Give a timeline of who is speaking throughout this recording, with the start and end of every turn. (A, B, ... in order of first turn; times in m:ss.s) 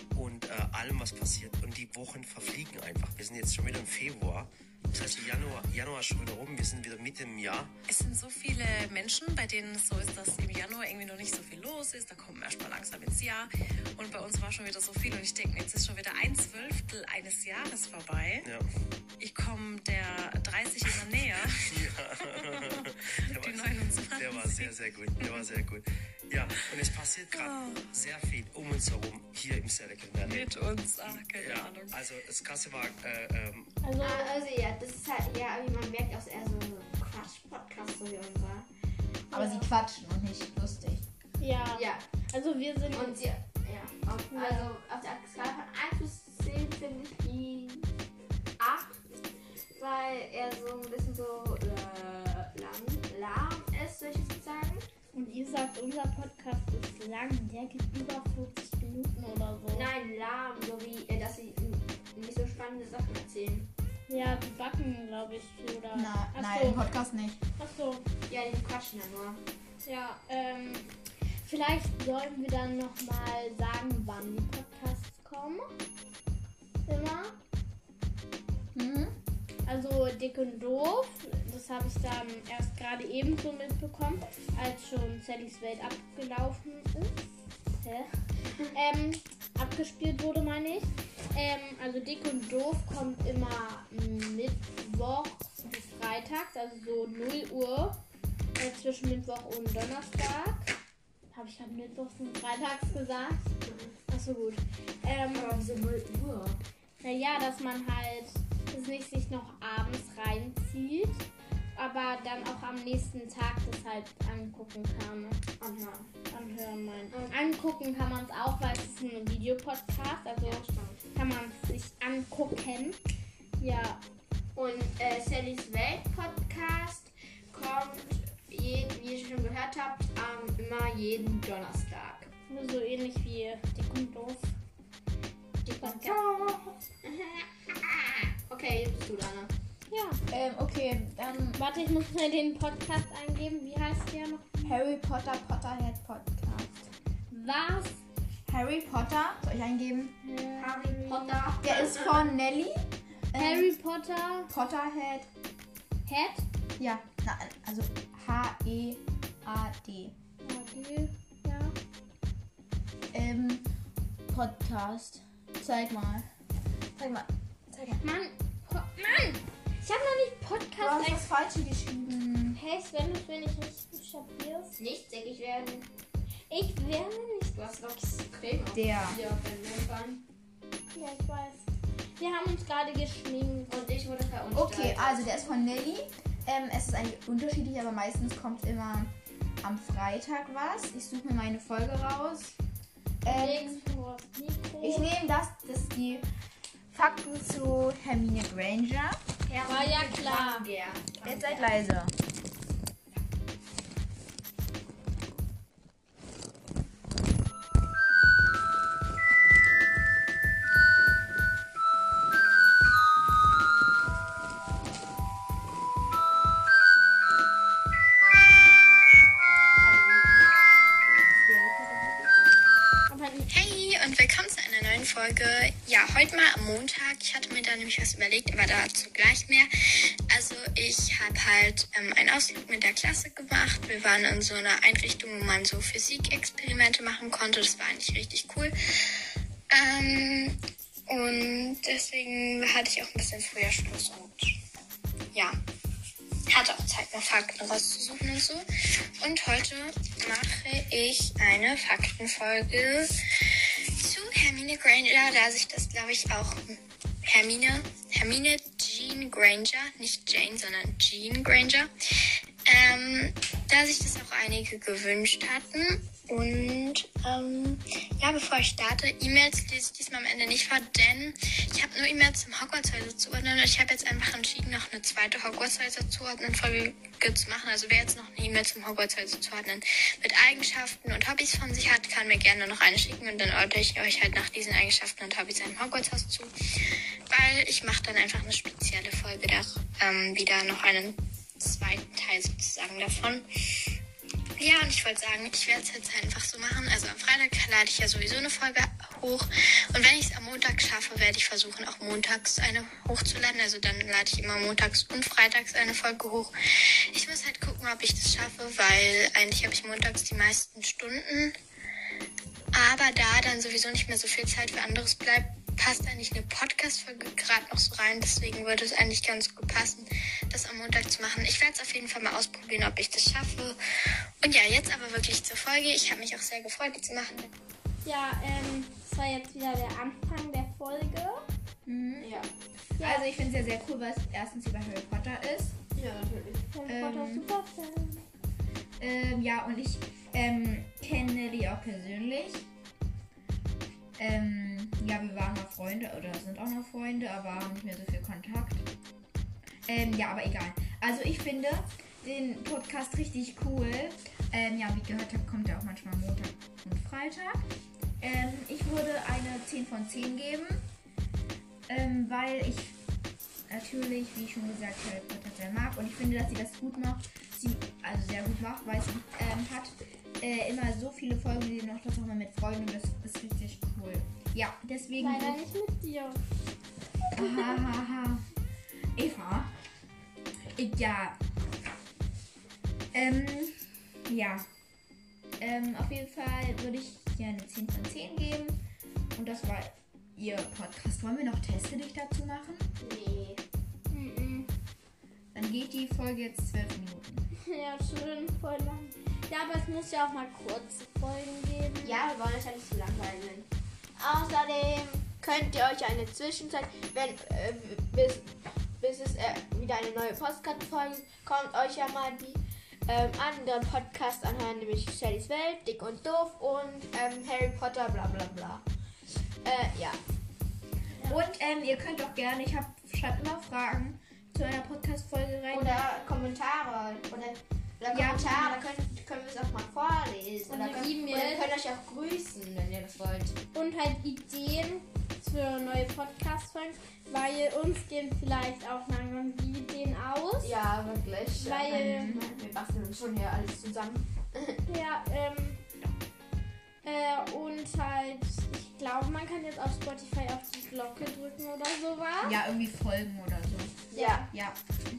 0:00.2-0:07.7 A
0:07.9-0:18.5 B
0:18.4-0:18.7 A
0:19.2-0:21.7 B
0:21.4-0:33.7 A
0:22.2-0:25.4 B
0:27.3-0:27.9 B
0:30.2-0:32.0 B
0:33.8-0:34.4 C
0:34.0-0:38.7 D
0:39.3-0:39.5 D
0:39.3-0:41.0 E
0:39.4-0:39.7 C
0:41.4-0:43.2 C
0:41.7-0:42.0 D
0:42.9-0:47.9 D
0:44.3-0:44.7 C
0:48.6-0:49.0 D
0:49.8-0:54.8 D
0:55.1-0:59.9 C
0:59.7-1:03.7 D
1:04.1-1:06.8 C
1:05.9-1:07.4 E
1:07.6-1:08.0 C
1:08.3-1:09.4 D
1:09.8-1:10.9 C
1:11.4-1:15.6 C
1:16.9-1:17.4 C
1:18.7-1:19.2 E
1:19.7-1:27.1 C
1:27.8-1:28.1 C
1:28.6-1:38.0 C
1:38.6-1:40.7 C
1:41.3-1:43.4 C
1:43.6-1:44.0 D
1:44.1-1:45.6 C
1:45.3-1:46.6 D
1:47.0-1:51.2 C
1:51.8-1:55.4 C
1:55.6-1:56.1 D
1:56.3-2:03.0 C
2:00.4-2:01.0 D
2:03.6-2:04.0 C
2:04.5-2:12.3 D
2:12.5-2:14.5 C
2:15.6-2:19.5 D
2:15.8-2:16.2 C
2:19.9-2:20.2 C
2:20.3-2:21.6 E
2:21.6-2:24.8 C
2:24.6-2:26.9 E
2:27.3-2:28.0 C
2:28.5-2:30.2 E
2:30.2-2:31.4 C
2:30.6-2:32.2 D
2:31.6-2:33.7 E
2:33.3-2:34.5 C
2:34.5-2:35.3 E
2:36.0-2:36.4 C
2:36.8-2:40.2 E
2:40.4-2:41.7 C
2:43.1-2:43.7 E
2:44.3-2:46.3 E
2:47.0-2:48.0 E
2:48.0-2:51.3 C
2:50.8-2:52.6 E
2:52.5-2:54.8 C
2:54.8-2:55.9 D
2:56.5-2:57.6 C
2:57.5-3:00.2 D
2:58.7-2:59.2 E
3:01.0-3:01.7 C
3:02.2-3:03.8 C
3:03.7-3:05.6 D
3:04.5-3:12.6 E
3:13.2-3:13.8 E
3:13.2-3:15.1 C
3:14.8-3:16.3 E
3:16.9-3:19.2 E
3:19.5-3:21.8 D
3:19.6-3:20.7 C
3:21.2-3:22.1 E
3:39.8-3:40.5 D
3:41.4-3:42.3 D
3:43.1-3:43.5 C
3:43.5-3:49.7 F
3:50.3-3:58.7 F
3:59.7-4:00.6 F
4:01.1-4:04.4 F
4:06.5-4:08.6 F
4:09.2-4:13.1 F
4:14.0-4:16.6 F
4:17.3-4:21.9 F
4:22.7-4:46.5 F
4:47.3-4:53.4 F
4:54.6-5:06.5 F
5:07.2-5:11.5 F
5:12.8-5:23.8 F
5:24.4-5:27.5 F
5:28.0-5:31.4 C
5:31.8-5:32.3 E
5:32.2-5:32.5 D
5:33.0-5:33.3 C
5:33.0-5:35.8 E
5:36.0-5:36.7 D
5:36.7-5:38.2 C
5:36.9-5:37.5 E
5:39.0-5:42.7 E
5:44.2-5:48.9 E
5:49.9-5:57.7 E
5:58.2-6:00.8 E
6:01.9-6:03.0 E
6:03.7-6:15.6 E
6:15.2-6:16.4 C
6:17.3-6:18.4 E
6:19.2-6:19.7 E
6:20.8-6:21.4 E
6:23.1-6:24.7 E
6:25.6-6:28.8 E
6:29.4-6:32.9 E
6:33.0-6:33.6 D
6:34.1-6:34.7 C
6:35.5-6:37.4 E
6:37.7-6:42.2 C
6:42.0-6:58.8 D
6:59.6-7:00.2 D
7:01.2-7:05.9 E
7:05.7-7:13.6 D
7:08.1-7:08.8 E
7:10.7-7:11.7 C
7:13.7-7:20.8 C
7:20.6-7:24.8 D
7:21.6-7:22.4 C
7:21.9-7:22.5 E
7:24.9-7:25.8 C
7:27.0-7:32.6 C
7:32.4-7:34.8 E
7:34.1-7:34.5 D
7:34.1-7:34.5 C